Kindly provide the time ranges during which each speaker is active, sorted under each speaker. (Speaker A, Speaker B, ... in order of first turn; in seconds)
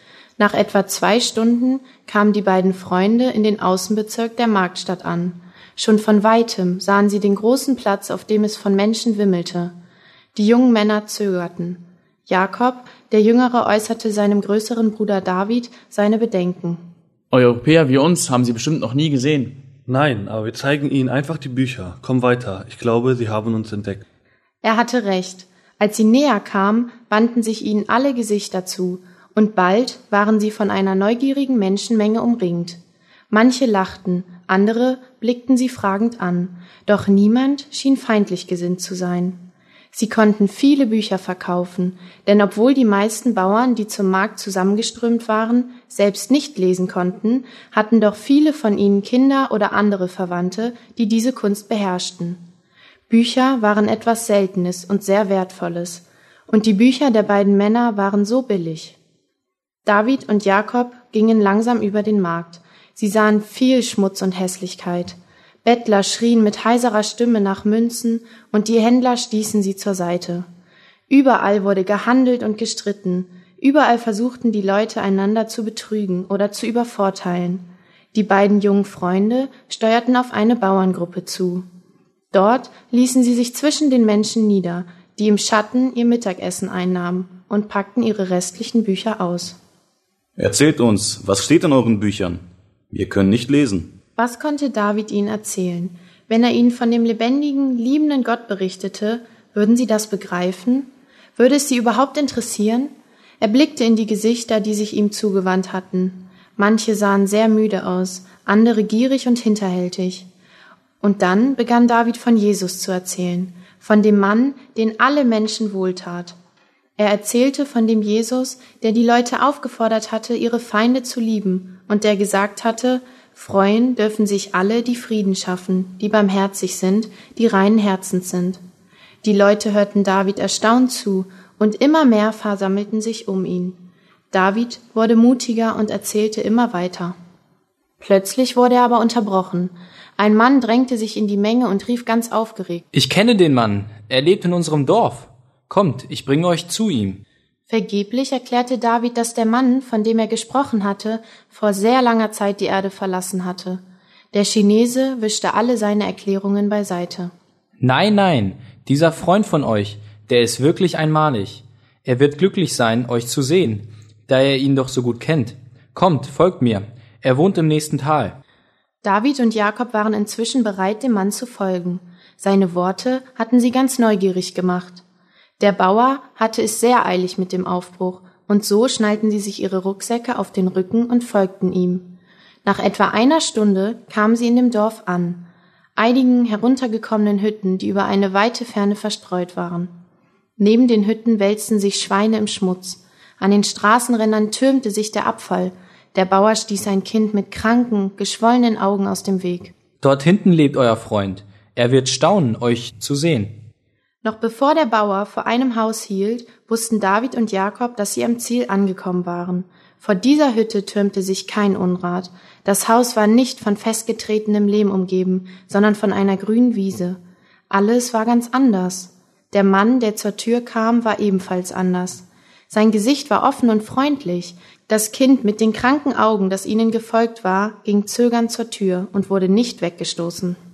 Speaker A: 0.4-9.8, 10.3-16.8, 24.6-32.8, 33.3-52.4, 53.1-59.0, 59.9-70.5, 71.1-81.7, 82.3-89.6, 94.2-110.3, 111.0-116.4, 117.0-128.6, 129.2-133.8, 134.3-137.2, 138.0-142.9, 147.7-157.3, 169.0-175.0, 175.6-182.1, 182.6-189.9, 190.6-199.7, 204.2-230.6
Speaker B: 17.3-19.6
Speaker C: 19.9-24.0
Speaker D: 90.4-94.0
Speaker E: 142.9-147.2, 157.8-168.4, 200.0-203.6